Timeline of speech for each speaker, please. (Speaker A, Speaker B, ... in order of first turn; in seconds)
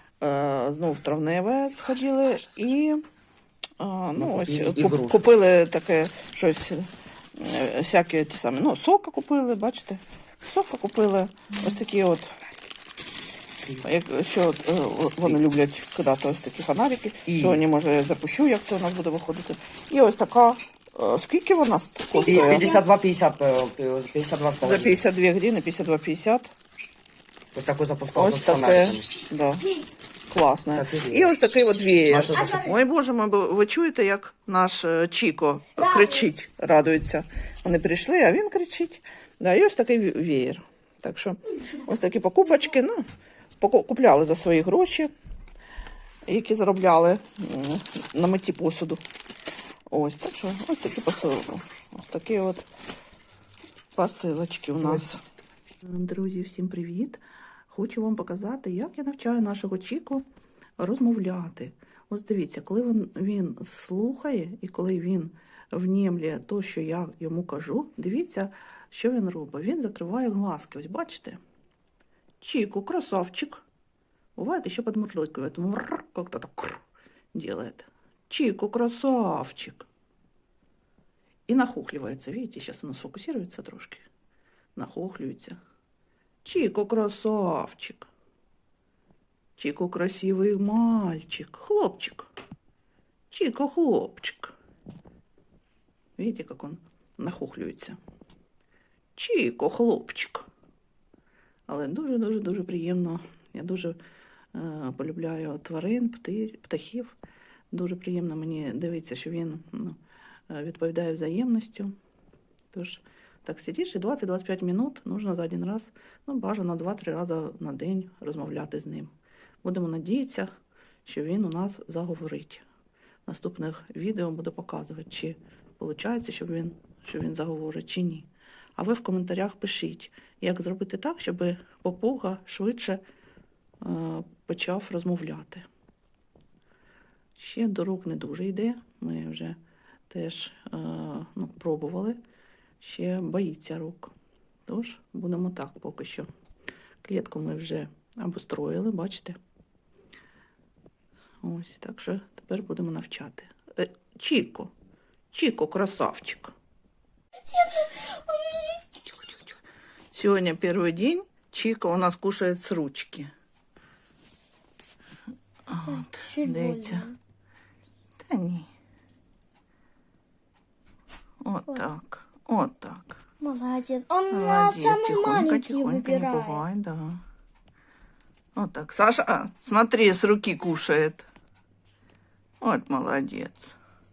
Speaker A: 0.2-3.0, 3.8-12.3, 13.8-22.7, 24.6-26.5, 28.1-29.7, 30.3-43.0, 43.6-45.1, 46.3-49.0, 49.9-52.7, 53.9-55.2, 55.8-60.2, 60.8-71.4, 72.4-73.6, 74.3-79.9, 81.5-84.0, 84.7-85.6, 86.4-88.1, 89.6-92.3, 93.3-94.5, 96.2-98.0, 99.2-100.5, 101.7-104.0, 104.5-107.1, 107.7-110.0, 110.5-111.9, 112.7-119.1, 119.6-120.5, 121.0-122.6, 123.2-133.0, 133.8-135.7, 137.4-139.6, 140.1-142.2, 142.8-144.1, 144.7-146.3, 147.0-149.4, 151.4-154.7, 155.3-156.5, 159.1-159.6, 160.1-163.3, 165.7-167.1, 168.2-168.7, 171.4-173.2, 174.3-177.2, 178.6-181.3, 182.6-183.8
Speaker B: 4.2-5.2, 17.3-17.6, 22.3-25.0, 27.5-29.1, 30.7-31.3, 32.1-32.7
Speaker C: 22.1-22.8, 35.8-36.2, 157.5-158.8, 165.8-167.2, 173.4-176.6